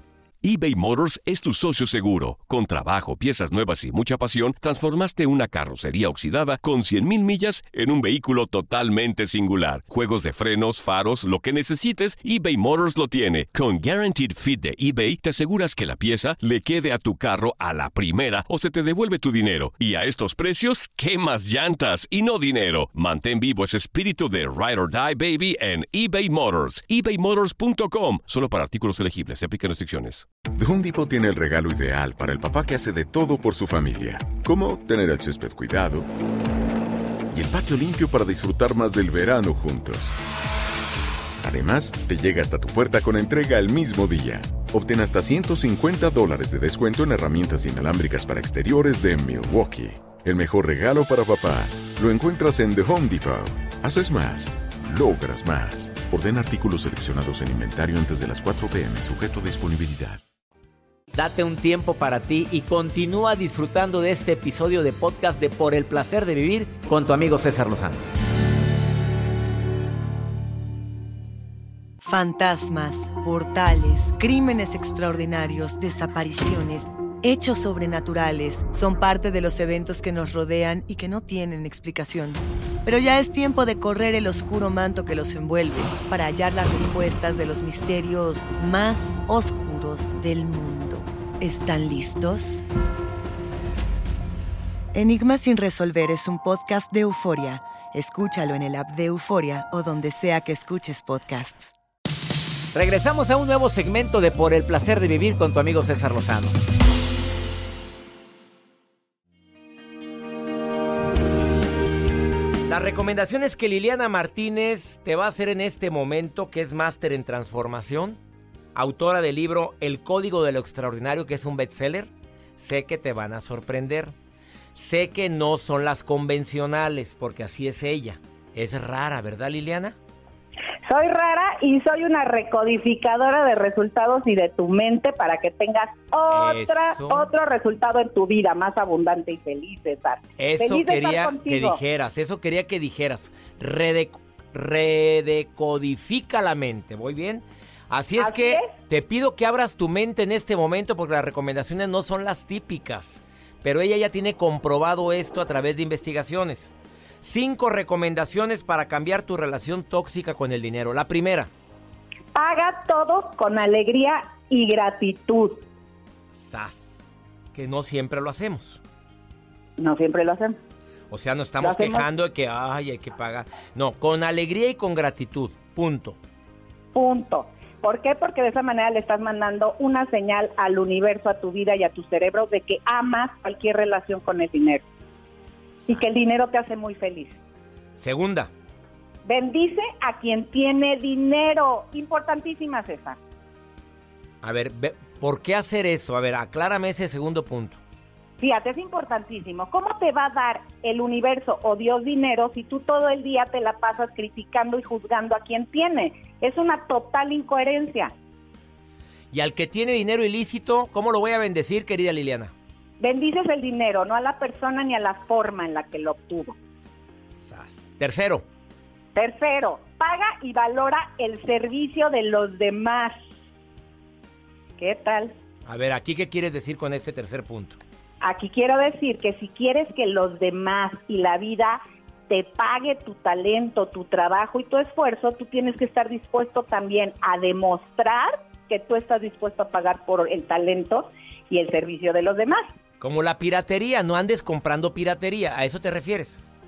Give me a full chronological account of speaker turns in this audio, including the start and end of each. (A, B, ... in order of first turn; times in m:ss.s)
0:00.4-0:30.3 A
0:30.6-0:36.1 B
0:37.3-0:40.1 B
0:41.4-1:00.2 B
1:01.1-1:08.0 C
1:12.0-1:32.6 D
1:34.9-1:41.7 D
1:42.7-1:46.7 C
1:52.7-1:58.2 C
1:58.8-2:04.1 C
2:04.7-2:10.0 C
2:10.9-2:21.8 E
2:16.3-2:17.3 C
2:20.4-2:41.5 C
2:28.2-2:28.7 E
2:42.4-2:45.6 E
2:46.3-2:48.8 C
2:49.8-2:50.6 E
2:51.1-2:56.2 C
2:51.6-2:52.0 E
2:56.9-3:04.8 E
3:05.8-3:06.2 C
3:05.9-3:07.4 E
3:08.0-3:08.5 C
3:09.2-3:13.2 E
3:14.4-3:17.8 C
3:18.4-3:28.1 E
3:29.3-3:32.5 C
3:33.0-3:36.6 E
3:37.3-3:38.4 C
3:39.2-3:43.2 E
3:44.8-3:45.4 E
3:45.7-3:47.8 C
3:48.2-4:02.7 E
4:03.0-4:06.4 C